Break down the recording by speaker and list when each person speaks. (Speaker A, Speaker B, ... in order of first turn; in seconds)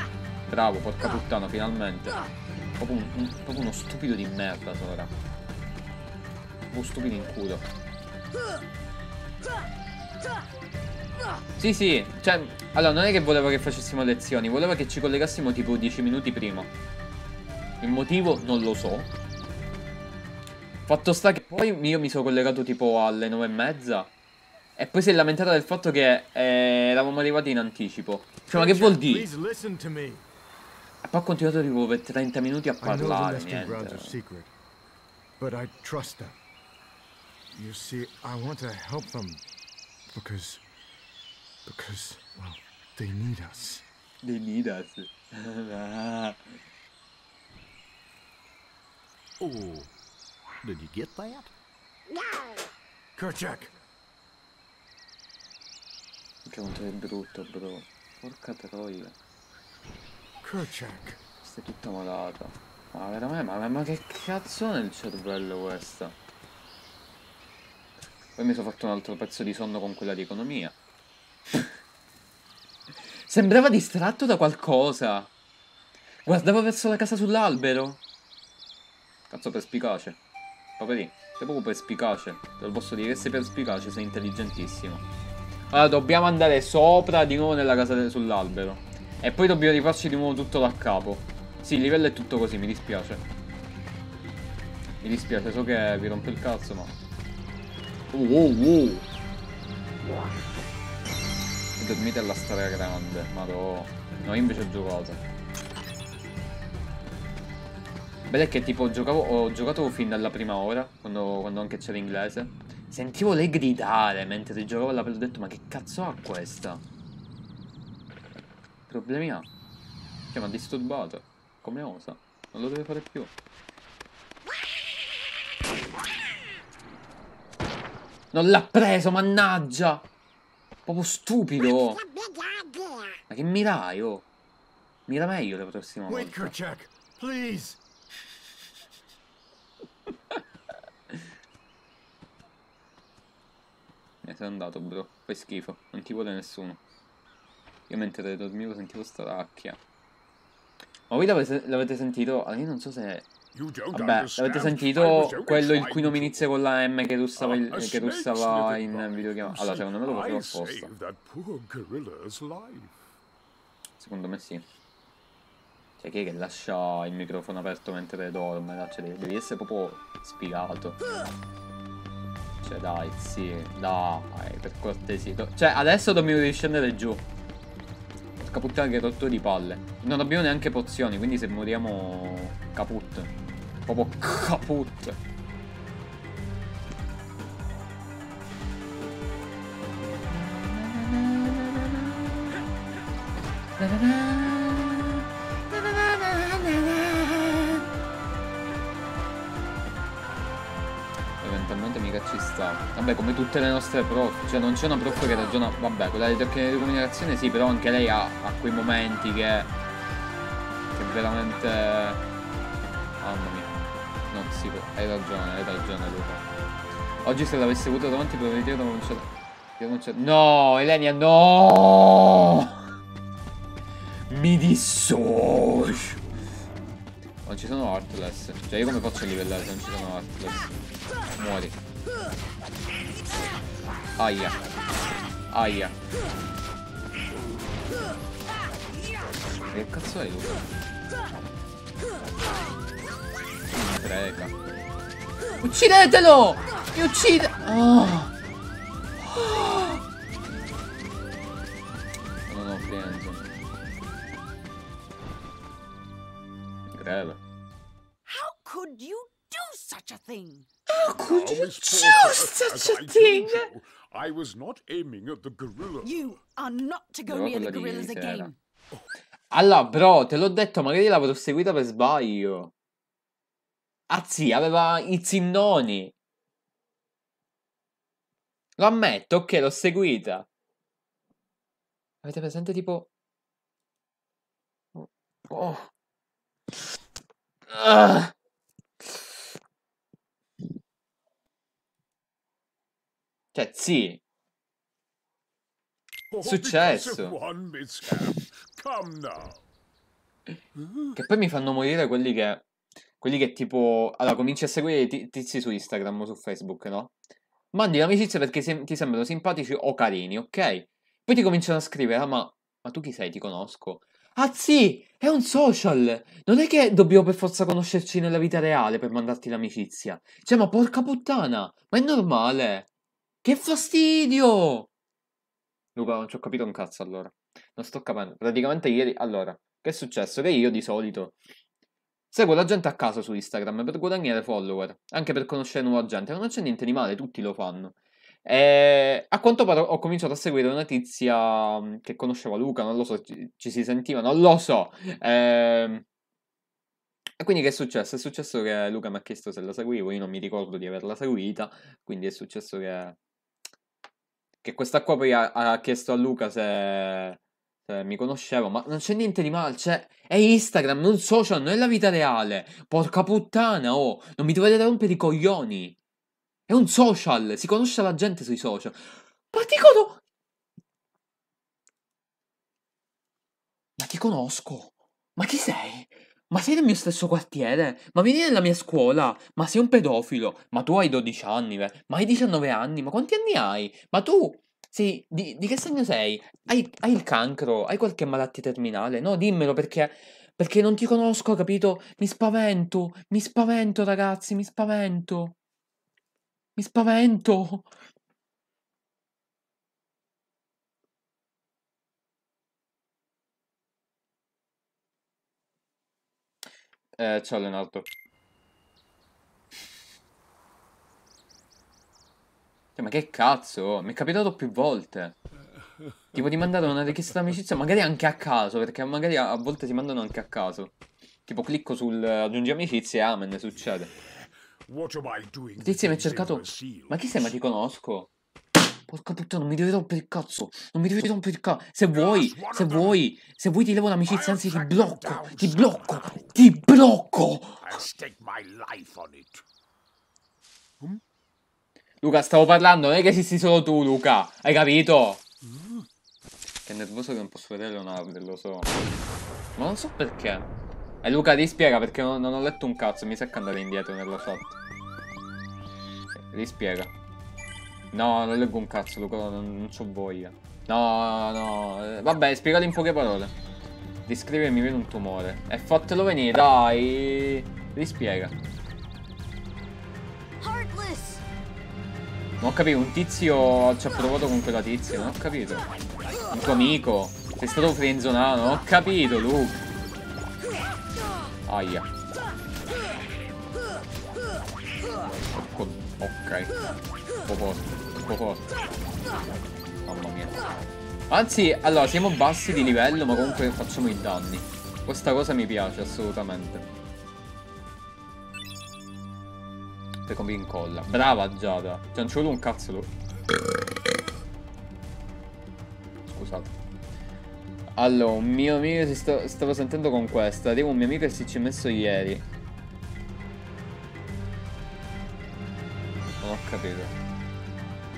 Speaker A: 0.5-2.2, 2.8-5.1, 6.7-7.7, 11.6-16.7, 17.8-19.1, 20.9-24.1, 24.8-29.3, 31.0-34.1, 44.2-46.5, 56.5-59.1, 61.4-66.2, 68.4-70.8, 73.3-75.3, 76.3-78.0, 79.3-80.2, 80.8-85.0, 85.7-93.2, 95.0-97.0, 98.1-99.1, 101.8-105.2, 108.3-116.8, 118.9-119.5, 120.3-123.3, 128.3-130.1, 130.9-132.1, 133.3-134.3, 135.1-136.5, 144.2-146.8, 147.9-149.8, 151.1-153.3, 153.9-160.9, 164.0-164.7, 166.0-171.0, 172.6-177.2, 178.4-183.3, 183.8-185.2, 190.3-192.6, 193.8-197.8, 201.4-209.7, 210.9-212.2, 213.2-213.7, 214.3-216.4, 217.2-222.8, 224.3-226.2, 227.4-230.7, 231.3-231.8, 234.2-234.6, 235.5-236.0, 239.7-240.6, 243.7-244.5, 245.6-248.3, 249.2-250.0, 252.5-253.5, 256.9-257.4, 260.9-263.7, 267.3-268.5, 269.5-272.7, 274.1-276.1, 278.8-280.5, 282.2-283.1, 285.0-285.9, 287.7-288.3, 293.5-294.2, 296.4-297.4, 301.1-302.6, 303.2-307.1, 307.7-322.9, 323.4-324.9, 326.0-331.4, 332.3-346.0, 347.4-353.2, 354.6-366.0, 366.7-370.2, 374.0-395.6, 396.8-397.9, 407.2-408.1, 413.0-415.4, 416.3-420.9, 421.5-424.1, 425.8-428.3, 429.1-438.0, 442.2-445.4, 446.9-448.9, 449.8-450.7, 451.2-454.8, 456.4-457.1, 458.1-463.5, 464.3-468.5, 472.6-475.9, 476.5-479.8, 481.7-482.1, 485.5-486.7, 487.5-488.7, 490.1-490.5, 491.3-496.9, 500.3-503.1, 506.3-506.7, 508.0-512.5, 516.4-517.1
Speaker B: 28.5-30.2, 32.8-34.5, 35.4-36.4, 37.5-39.4, 40.1-40.6, 41.7-43.8, 53.2-53.7, 60.4-61.2, 136.1-137.8
Speaker C: 49.4-49.9, 50.7-51.5, 153.5-156.5, 157.4-162.9, 261.2-266.3, 296.3-299.6, 424.9-427.6, 432.1-433.2, 434.3-436.5, 437.8-439.6, 445.7-446.0
Speaker D: 132.1-133.2, 258.3-260.7, 266.0-268.5, 470.6-471.4